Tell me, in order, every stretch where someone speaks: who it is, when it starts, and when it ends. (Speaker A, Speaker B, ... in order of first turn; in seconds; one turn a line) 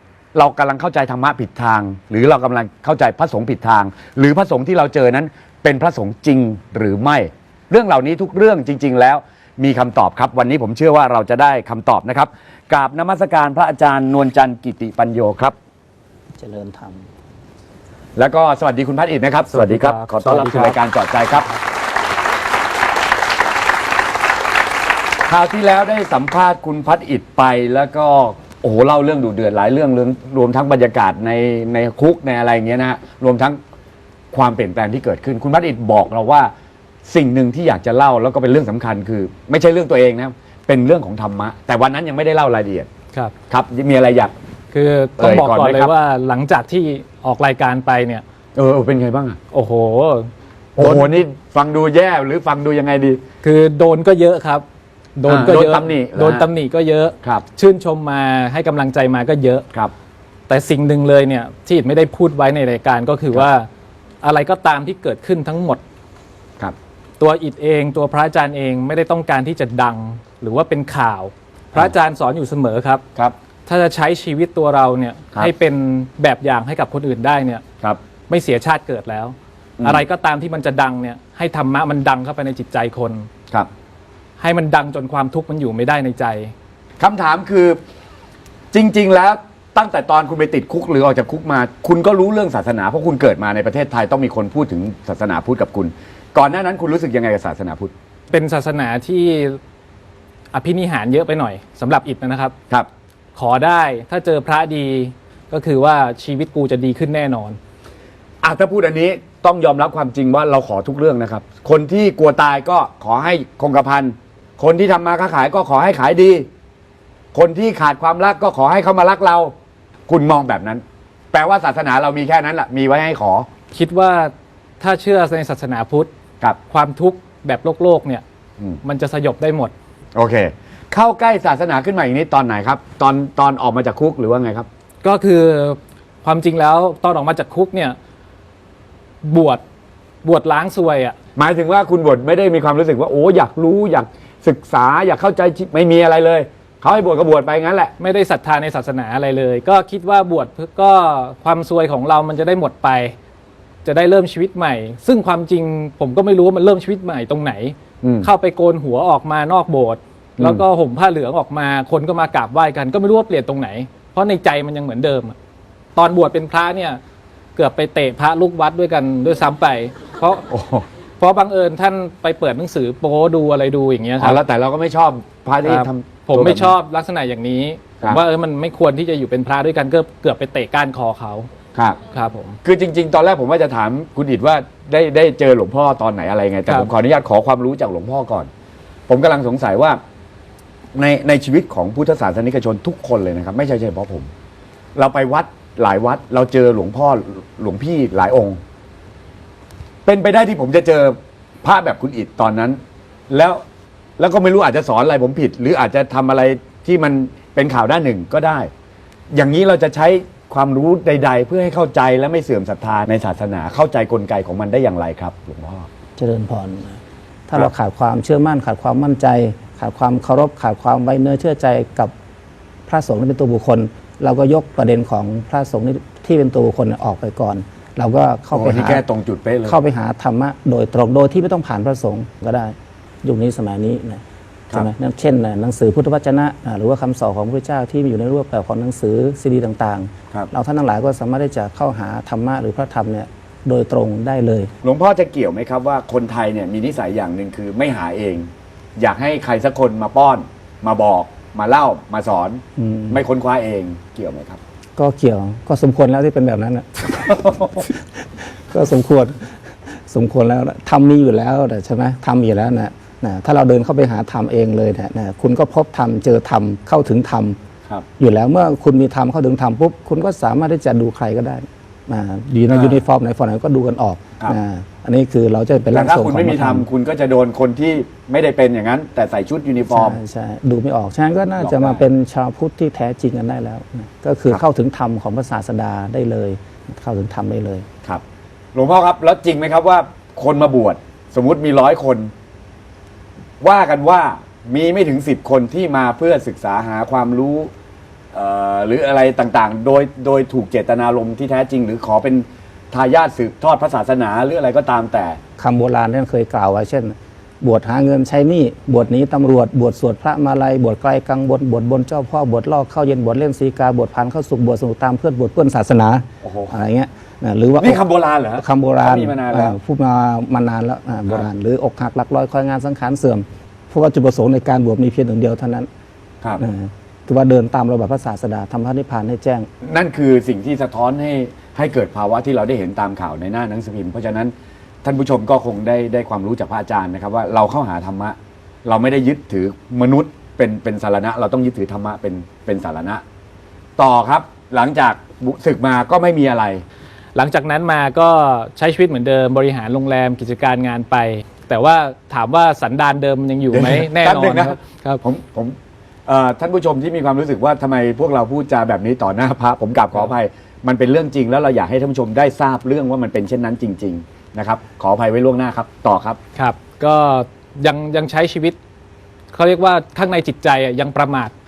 Speaker A: 0.3-15.5
Speaker B: 16.4-17.1
Speaker A: 18.1-21.5
Speaker C: 19.5-20.8
Speaker C: 21.3-21.6
Speaker A: 25.3-33.6
Speaker A: 34.3-36.5
Speaker A: 37.0-42.9
Speaker A: 43.5-44.3
Speaker C: 44.7-48.2
Speaker A: 45.2-45.9
Speaker A: 48.5-49.4
Speaker C: 49.5-51.1
Speaker A: 50.8-53.2
Speaker C: 53.4-54.6
Speaker C: 55.1-59.6
Speaker A: 55.3-56.5
Speaker C: 60.5-63.7
Speaker C: 64.2-65.8
Speaker C: 67.2-73.0
Speaker C: 73.7-77.6
Speaker C: 78.3-83.3
Speaker C: 84.4-86.5
Speaker A: 87.0-87.8
Speaker A: 88.7-97.9
Speaker C: 98.3-99.6
Speaker C: 100.5-102.5
Speaker C: 103.3-107.6
Speaker A: 108.4-116.5
Speaker A: 117.3-119.5
Speaker A: 120.1-123.5
Speaker C: 123.7-126.1
Speaker C: 126.7-128.2
Speaker C: 128.8-129.7
Speaker A: 130.1-134.7
Speaker C: 135.0-138.0
Speaker C: 139.2-139.6
Speaker C: 140.2-141.2
Speaker A: 141.3-147.9
Speaker C: 148.0-153.1
Speaker C: 153.8-165.3
Speaker A: 158.0-158.3
Speaker A: 160.4-160.6
Speaker C: 165.9-167.0
Speaker C: 167.6-170.5
Speaker A: 170.5-170.8
Speaker C: 171.2-174.4
Speaker A: 174.2-176.7
Speaker C: 175.6-181.5
Speaker C: 182.1-182.6
Speaker A: 182.6-188.5
Speaker A: 189.1-190.0
Speaker A: 190.9-194.3
Speaker A: 194.9-198.6
Speaker A: 200.1-203.6
Speaker A: 204.2-208.7
Speaker A: 209.3-215.9
Speaker B: 216.2-222.1
Speaker B: 222.9-229.0
Speaker A: 228.5-229.8
Speaker B: 229.6-244.7
Speaker A: 244.8-254.6
Speaker B: 252.8-253.2
Speaker B: 255.0-259.4
Speaker A: 257.3-257.7
Speaker B: 260.1-267.6
Speaker B: 268.2-276.9
Speaker A: 272.7-273.0
Speaker A: 275.9-280.2
Speaker B: 279.9-287.9
Speaker A: 281.6-282.0
Speaker A: 288.7-292.3
Speaker A: 293.6-297.7
Speaker A: 298.3-305.4
Speaker B: 305.6-325.9
Speaker A: 316.4-316.7
Speaker A: 317.8-319.7
Speaker B: 326.6-329.7
Speaker A: 329.8-334.5
Speaker A: 335.0-343.2
Speaker A: 344.0-346.8
Speaker C: 347.3-355.2
Speaker A: 353.7-366.4
Speaker C: 366.5-368.8
Speaker C: 369.5-371.5